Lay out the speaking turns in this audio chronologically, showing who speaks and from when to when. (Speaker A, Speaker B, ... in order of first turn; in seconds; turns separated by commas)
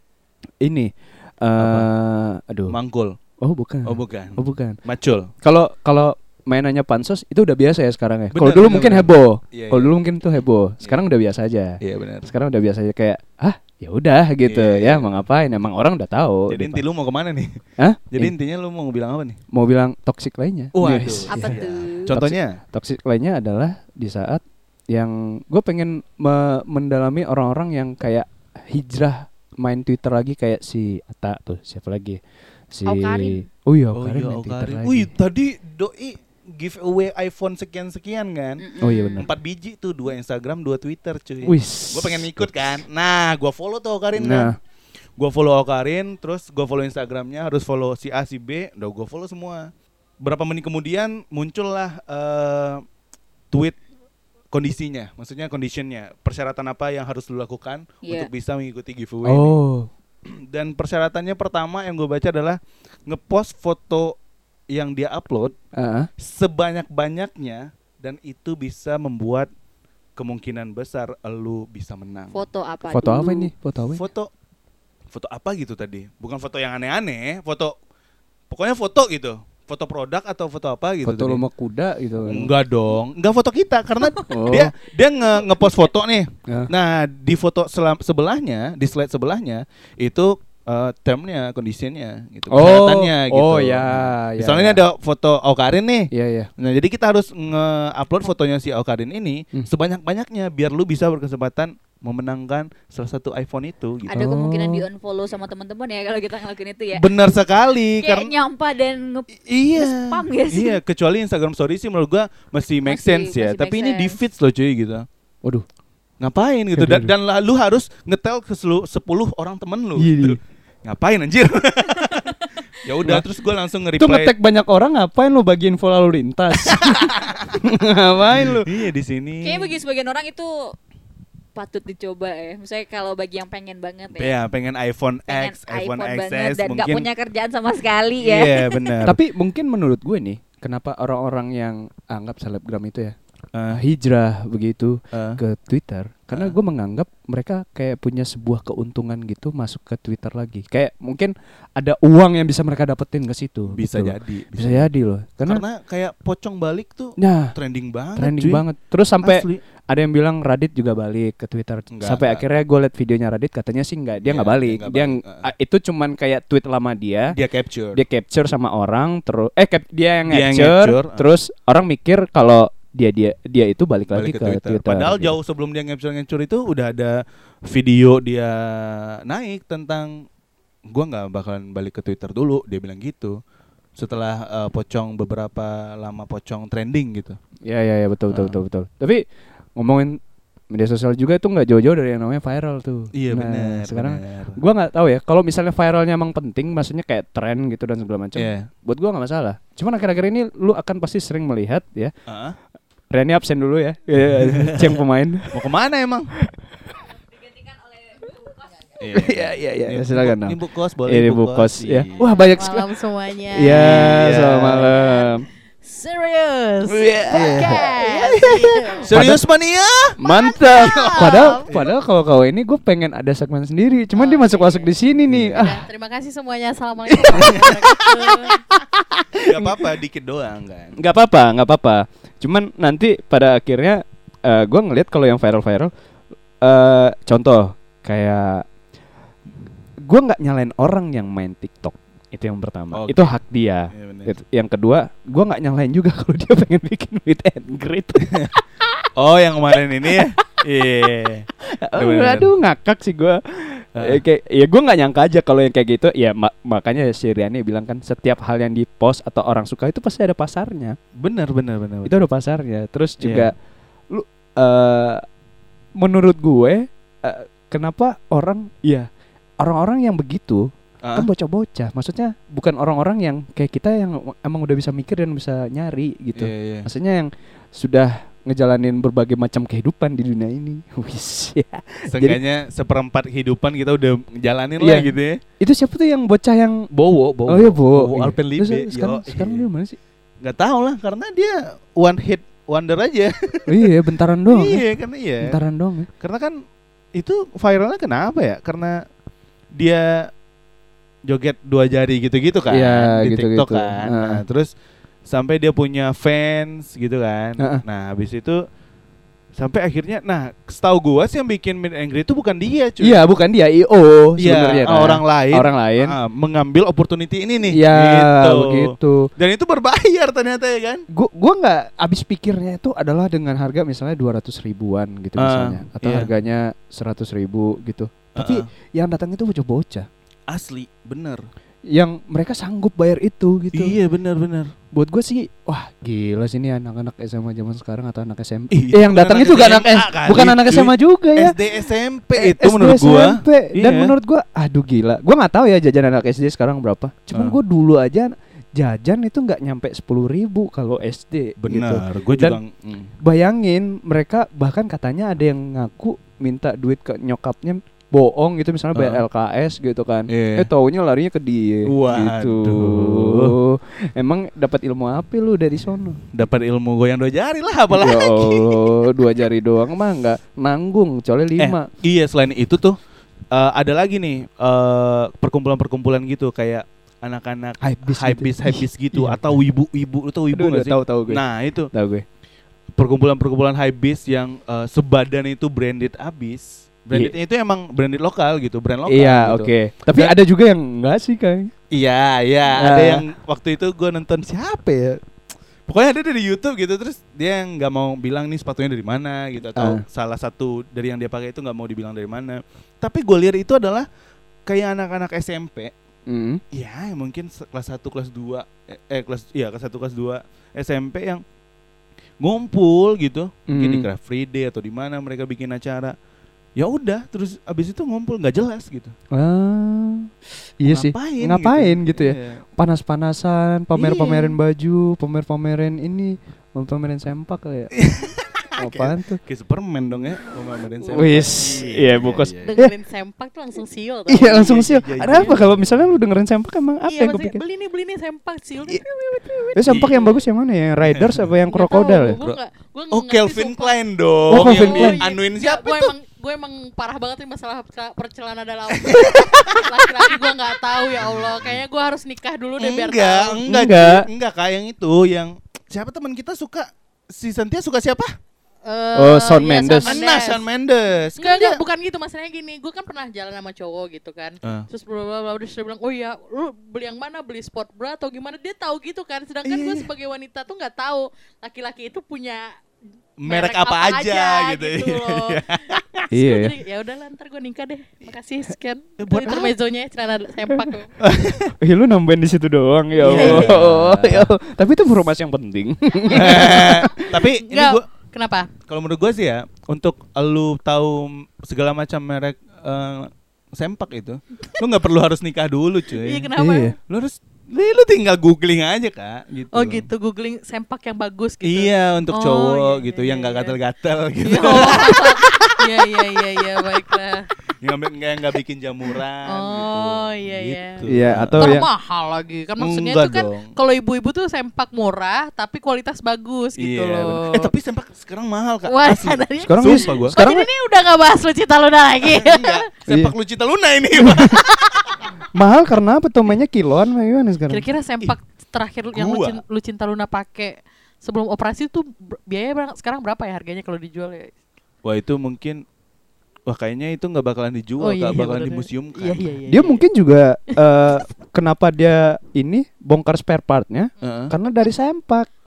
Speaker A: 0.6-2.8, Speaker B: 1.6-1.9, Speaker B: 2.7-3.2, Speaker A: 3.4-4.8, Speaker B: 3.9-5.3, Speaker A: 5.4-16.8, Speaker B: 8.3-10.0, Speaker B: 11.8-12.3, Speaker B: 14.5-15.2, Speaker B: 16.5-17.6, Speaker A: 17.8-18.3, Speaker B: 18.1-19.4, Speaker A: 19.5-32.2, Speaker B: 20.7-22.6, Speaker C: 21.3-22.1, Speaker A: 32.7-35.1, Speaker C: 32.9-33.5, Speaker B: 33.9-38.6, Speaker C: 38.6-39.3, Speaker A: 38.8-39.3, Speaker B: 39.2-44.5, Speaker A: 41.5-42.8, Speaker A: 44.2-44.6, Speaker B: 45.2-52.8, Speaker B: 53.5-53.8, Speaker B: 54.5-59.6, Speaker C: 58.0-58.3, Speaker A: 59.2-59.9, Speaker B: 60.3-64.2, Speaker B: 64.7-65.5, Speaker A: 65.8-66.1, Speaker B: 66.2-69.5, Speaker B: 70.2-72.4, Speaker C: 72.3-73.5, Speaker A: 72.9-74.0, Speaker B: 73.9-74.3, Speaker B: 75.1-77.8, Speaker B: 78.5-81.4, Speaker A: 81.0-82.5, Speaker B: 82.2-104.3, Speaker A: 84.3-84.7, Speaker A: 92.5-94.8, Speaker A: 96.1-96.5, Speaker C: 104.1-107.1, Speaker A: 104.2-104.8, Speaker B: 106.9-108.3, Speaker C: 108.0-110.8, Speaker B: 109.5-115.1, Speaker C: 112.9-114.2, Speaker B: 116.2-124.3, Speaker A: 116.8-117.1, Speaker A: 120.0-120.4, Speaker C: 122.0-122.5, Speaker A: 124.0-127.0, Speaker B: 126.7-127.6, Speaker A: 127.6-128.7, Speaker B: 128.2-129.8, Speaker C: 129.4-130.8, Speaker C: 131.6-134.3, Speaker B: 134.2-137.1, Speaker C: 135.3-139.0, Speaker B: 138.2-139.2, Speaker A: 139.1-143.2, Speaker B: 143.5-143.8, Speaker A: 143.7-155.6, Speaker B: 145.1-145.4, Speaker B: 153.7-154.9, Speaker B: 155.4-158.7, Speaker A: 157.2-157.5, Speaker A: 158.2-167.4, Speaker B: 159.2-159.6, Speaker B: 161.9-162.4, Speaker B: 164.2-165.4, Speaker B: 167.3-168.0, Speaker A: 167.9-175.3, Speaker B: 170.3-171.3, Speaker B: 174.1-180.3, Speaker B: 180.9-183.4, Speaker B: 184.0-187.4, Speaker A: 187.7-189.2, Speaker B: 188.3-188.6, Speaker A: 189.8-190.2, Speaker A: 190.7-202.1, Speaker B: 193.1-194.6, Speaker B: 198.4-198.7, Speaker B: 202.3-202.6, Speaker A: 203.1-205.7, Speaker B: 204.2-206.3, Speaker C: 208.1-208.6, Speaker B: 209.0-212.1, Speaker A: 209.1-212.9, Speaker D: 212.2-214.3, Speaker A: 213.5-215.4, Speaker B: 213.6-215.0, Speaker D: 215.0-215.3, Speaker D: 215.8-219.1, Speaker A: 216.9-219.4, Speaker B: 219.0-222.0, Speaker A: 220.2-225.8, Speaker D: 220.3-221.6, Speaker D: 224.1-224.9, Speaker B: 225.3-225.7, Speaker D: 225.6-228.7, Speaker A: 227.1-227.9, Speaker B: 227.3-228.0, Speaker A: 228.5-229.7, Speaker B: 229.4-231.0, Speaker A: 231.0-235.9, Speaker A: 236.6-238.7, Speaker A: 240.1-248.6, Speaker B: 242.9-243.4, Speaker B: 243.9-244.3, Speaker B: 248.2-248.5, Speaker B: 249.2-252.5, Speaker A: 251.6-261.0, Speaker B: 253.9-254.2, Speaker B: 261.2-262.2, Speaker A: 262.1-263.5, Speaker B: 263.2-263.5, Speaker A: 264.1-265.2, Speaker A: 266.0-269.1, Speaker A: 269.6-282.4, Speaker B: 271.0-271.3, Speaker B: 276.4-276.9, Speaker B: 282.1-285.4, Speaker A: 284.8-286.9, Speaker B: 286.9-289.7, Speaker A: 287.5-290.0, Speaker B: 290.4-293.9, Speaker A: 293.7-294.9, Speaker B: 294.5-295.6, Speaker A: 295.4-296.1, Speaker B: 296.2-296.6, Speaker B: 297.2-299.0, Speaker B: 299.7-300.3, Speaker B: 301.3-304.7, Speaker A: 302.7-304.4, Speaker B: 305.3-308.6, Speaker B: 309.6-313.2, Speaker A: 313.0-316.1, Speaker B: 314.4-321.1, Speaker A: 317.7-319.3, Speaker A: 321.1-330.1, Speaker B: 325.4-326.3, Speaker B: 328.4-328.7, Speaker B: 330.5-331.4, Speaker A: 331.9-334.0, Speaker B: 333.7-334.7, Speaker A: 334.9-341.6, Speaker B: 338.7-344.1, Speaker A: 342.4-352.6, Speaker B: 347.3-347.6, Speaker B: 351.6-353.1, Speaker A: 353.2-366.2, Speaker B: 358.9-359.2, Speaker B: 360.3-360.7, Speaker B: 361.9-363.6, Speaker B: 366.3-369.1, Speaker A: 367.9-371.9, Speaker B: 371.6-373.0, Speaker B: 373.5-381.9, Speaker A: 377.8-379.6, Speaker A: 380.5-382.2, Speaker B: 383.0-390.4, Speaker A: 389.1-391.7, Speaker B: 391.9-395.2, Speaker A: 392.7-393.2, Speaker B: 395.9-404.1, Speaker A: 399.8-400.0, Speaker B: 404.7-405.9, Speaker A: 406.3-406.6, Speaker B: 406.7-411.4, Speaker B: 412.4-416.1, Speaker A: 413.7-414.1, Speaker B: 416.8-419.1, Speaker A: 419.3-420.3, Speaker A: 420.8-428.0, Speaker B: 420.9-422.6, Speaker B: 423.9-424.6, Speaker B: 427.9-432.8, Speaker A: 428.8-429.4, Speaker D: 431.0-431.8, Speaker A: 431.2-432.9, Speaker D: 432.6-435.6, Speaker A: 434.3-437.6, Speaker B: 434.4-435.8, Speaker D: 437.1-440.3, Speaker A: 439.7-442.4, Speaker B: 439.8-440.3, Speaker B: 441.1-441.5, Speaker D: 441.7-443.9, Speaker B: 443.1-446.1, Speaker A: 444.5-445.2, Speaker D: 444.5-453.6, Speaker B: 449.0-450.4, Speaker B: 451.1-451.8, Speaker B: 452.8-458.3, Speaker A: 453.6-454.3, Speaker D: 458.8-460.6, Speaker A: 459.1-460.2, Speaker B: 460.1-461.8, Speaker D: 461.4-472.8, Speaker B: 469.6-470.1, Speaker B: 473.4-476.2, Speaker D: 473.5-475.7, Speaker A: 476.3-476.8, Speaker D: 476.3-481.1, Speaker B: 479.2-479.8, Speaker B: 481.2-481.7, Speaker A: 481.8-487.4, Speaker B: 483.2-484.5, Speaker D: 483.3-483.9, Speaker B: 486.3-488.1, Speaker D: 486.3-486.9, Speaker D: 487.6-488.7, Speaker B: 488.9-496.5, Speaker D: 496.1-497.0, Speaker A: 496.6-496.9, Speaker B: 497.1-500.1, Speaker D: 499.7-503.8, Speaker B: 501.6-505.9, Speaker D: 504.4-507.5, Speaker B: 506.9-507.1, Speaker B: 507.8-511.8, Speaker D: 509.5-517.7, Speaker A: 511.1-511.9, Speaker B: 512.8-513.7, Speaker B: 516.8-520.4, Speaker D: 518.9-522.8, Speaker A: 519.6-520.7, Speaker B: 522.2-524.8, Speaker A: 523.1-523.3, Speaker D: 524.4-525.0, Speaker A: 525.5-527.9, Speaker D: 527.7-534.5, Speaker B: 529.1-529.6, Speaker B: 535.0-535.8, Speaker B: 536.7-539.5, Speaker D: 538.0-540.0, Speaker A: 539.7-545.5, Speaker B: 544.2-544.5